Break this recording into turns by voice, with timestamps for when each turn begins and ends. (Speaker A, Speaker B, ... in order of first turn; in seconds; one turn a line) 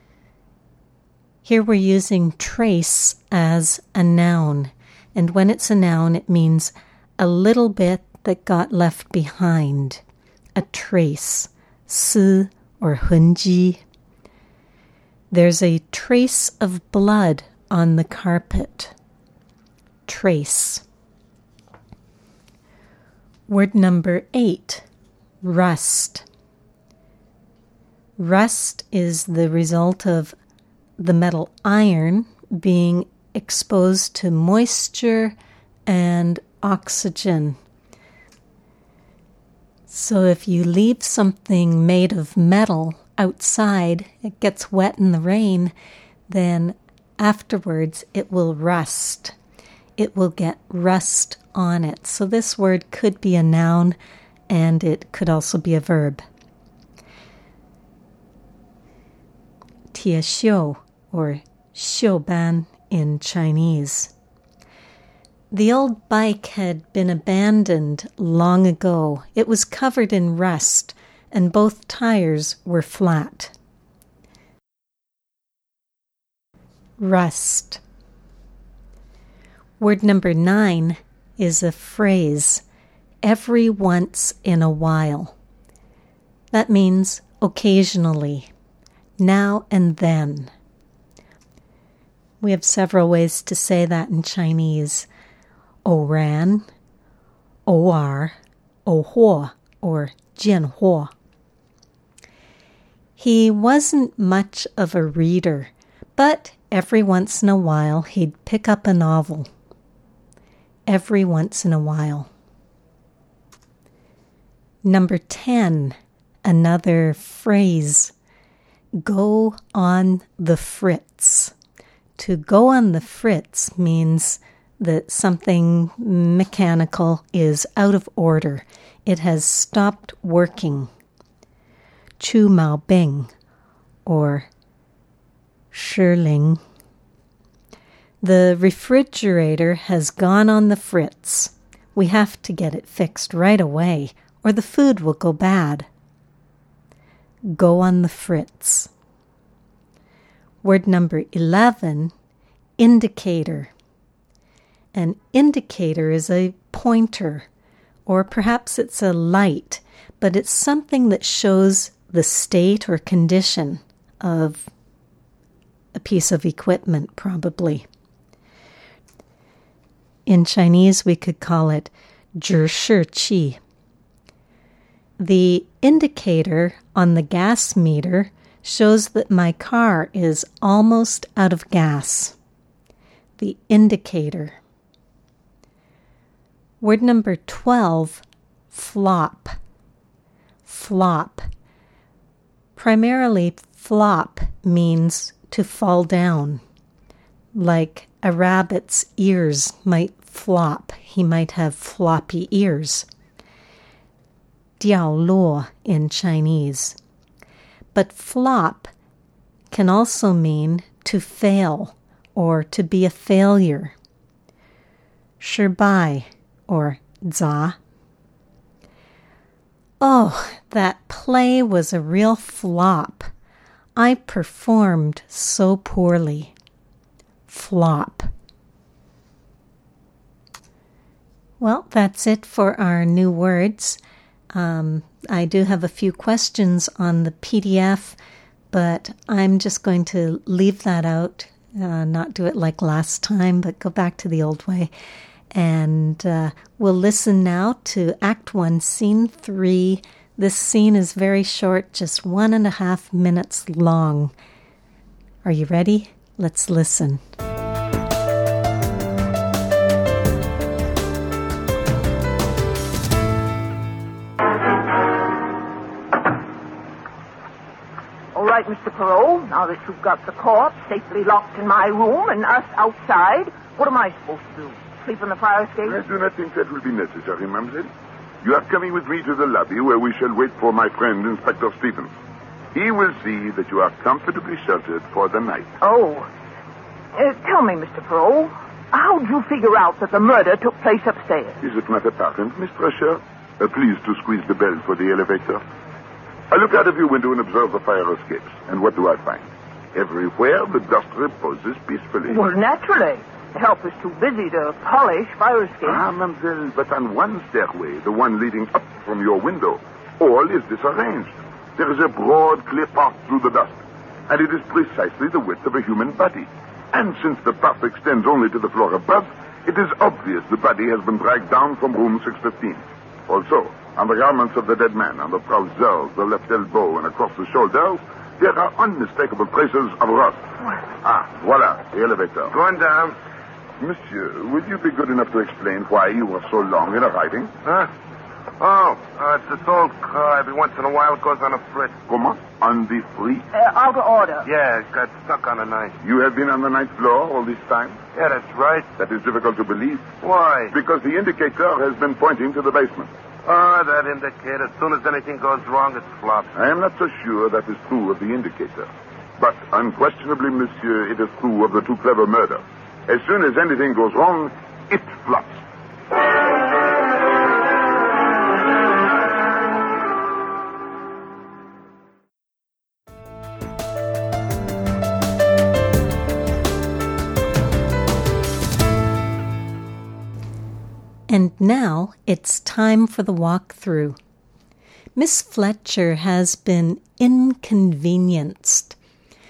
Speaker A: 1.4-10.0
Speaker A: 10.6-13.8
Speaker A: 15.3-18.9
Speaker A: 20.1-20.8
Speaker A: 23.5-24.8
Speaker A: 25.4-26.2
Speaker A: 28.2-30.3
Speaker A: 31.0-35.3
Speaker A: 35.9-37.6
Speaker A: 39.9-45.7
Speaker A: 46.3-49.3
Speaker A: 50.0-54.0
Speaker A: 54.5-56.2
Speaker A: 59.9-64.1
Speaker A: 65.5-73.5
Speaker A: 77.0-77.8
Speaker A: 79.8-82.6
Speaker A: 83.2-85.3
Speaker A: 86.5-88.5
Speaker A: 89.2-90.5
Speaker A: 92.4-95.1
Speaker A: 95.8-96.7
Speaker A: 97.7-101.1
Speaker A: 103.2-109.5
Speaker A: 110.9-112.3
Speaker A: 114.8-118.1
Speaker A: 119.0-121.5
Speaker A: 122.2-130.9
Speaker A: 132.2-133.3
Speaker A: 134.1-134.5
Speaker A: 135.7-136.6
Speaker A: 138.2-145.9
Speaker A: 147.5-148.9
Speaker A: 150.6-152.1
Speaker A: 152.8-153.7
Speaker A: 154.9-157.4
Speaker A: 158.1-164.7
Speaker A: 165.9-167.8
Speaker A: 170.2-173.6
Speaker A: 175.2-182.3
Speaker A: 183.4-184.6
Speaker A: 186.8-189.6
Speaker A: 190.7-191.5
Speaker A: 192.8-196.6
Speaker A: 197.5-203.1
Speaker A: 204.8-207.0
Speaker A: 207.9-208.9
Speaker A: 209.7-213.9
Speaker A: 215.4-217.8
Speaker A: 220.0-223.3
Speaker A: 223.9-226.5
Speaker A: 227.5-228.3
Speaker A: 231.6-234.0
Speaker A: 234.5-238.2
Speaker A: 238.7-244.9
Speaker A: 245.5-254.3
Speaker A: 255.4-257.2
Speaker B: 268.3-276.0
Speaker C: 275.8-277.9
Speaker C: 278.4-282.1
Speaker C: 282.7-285.7
Speaker B: 285.8-286.3
Speaker B: 287.1-291.6
Speaker C: 291.6-295.6
Speaker C: 296.5-302.4
Speaker B: 302.3-306.0
Speaker C: 305.8-330.4
Speaker C: 331.0-332.5
Speaker D: 332.5-333.1
Speaker C: 333.8-337.5
Speaker D: 337.6-337.9
Speaker D: 338.6-342.0
Speaker C: 342.1-343.5
Speaker B: 343.5-344.5
Speaker D: 344.4-345.9
Speaker C: 346.0-348.0
Speaker D: 348.1-348.9
Speaker C: 348.9-350.1
Speaker D: 350.2-350.7
Speaker C: 350.7-353.1
Speaker D: 353.4-356.5
Speaker C: 356.5-365.6
Speaker A: 381.3-384.2
Speaker A: 385.1-388.9